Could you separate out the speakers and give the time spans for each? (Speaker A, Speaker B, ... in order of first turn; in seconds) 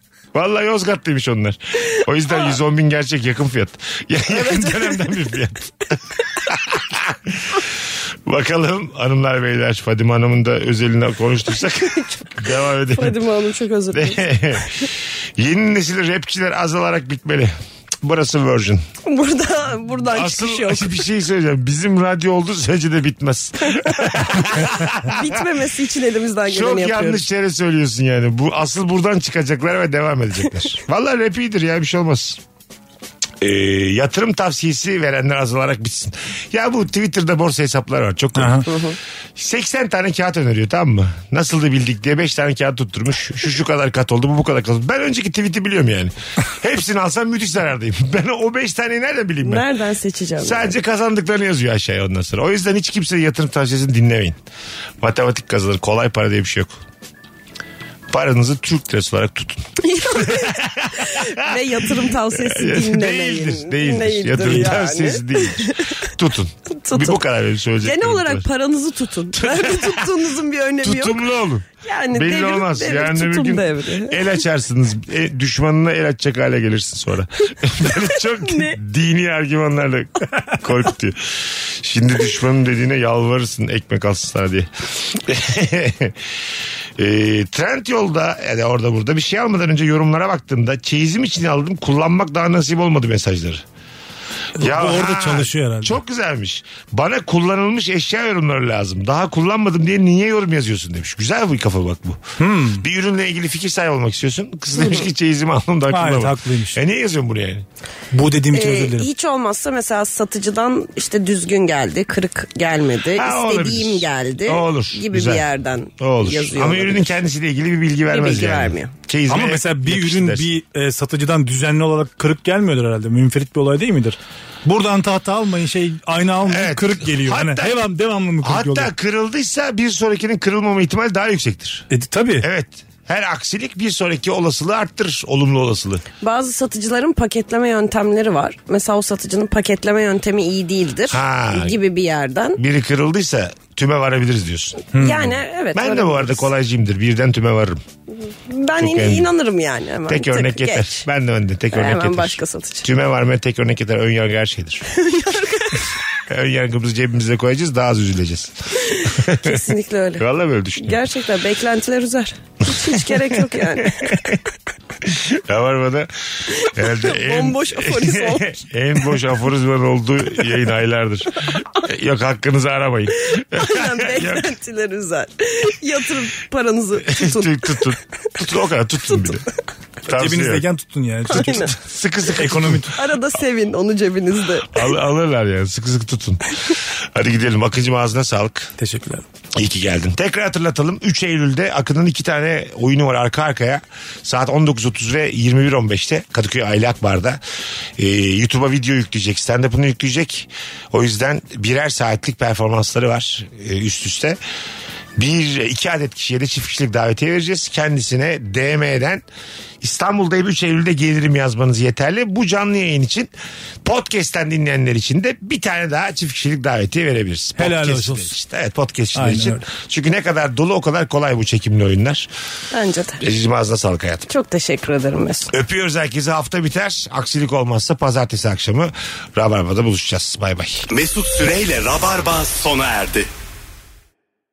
Speaker A: 0.3-13.2, 13.9-18.8, 20.0-25.5, 26.4-32.4, 33.4-49.7, 50.4-54.4, 55.0-56.8, 58.1-61.6, 62.3-68.5, 69.4-70.2, 70.8-86.3, 87.0-93.7, 94.6-107.7, 113.2-115.4, 116.0-120.5, 126.5-127.8, 128.4-131.9, 132.4-136.1, 141.1-141.8, 142.6-147.8, 148.8-149.3, 150.1-154.8, 156.3-161.0, 162.8-164.4, 165.0-174.5, 177.0-179.5, 180.1-180.7, 181.3-183.0, 184.7-188.7, 189.6-197.4, 198.0-204.4, 205.2-209.2, 209.8-213.3, 213.8-222.3, 223.2-224.3, 225.5-230.9
Speaker B: 4.3-5.2, 11.6-12.4, 12.9-14.8, 19.1-21.0, 23.6-27.2, 38.7-39.0, 49.4-50.8, 59.8-66.1, 66.7-67.2, 67.8-71.3, 71.8-74.4, 78.4-78.8, 108.5-117.2, 118.1-118.9, 136.2-142.6, 144.9-146.5, 148.2-151.1, 151.7-152.9, 154.9-155.9, 158.9-160.2, 160.8-164.3, 166.5-168.6, 173.3-178.0, 181.3-181.7, 182.9-184.9, 222.7-223.2, 224.3-225.5
Speaker C: 38.4-38.7, 94.6-96.0, 102.4-102.9, 105.9-106.8, 108.1-109.1, 119.3-128.9, 131.9-132.5, 144.9-145.2, 180.1-181.8, 182.3-182.9, 188.8-189.2, 217.6-218.3, 219.2-219.6
Speaker D: 230.9-233.3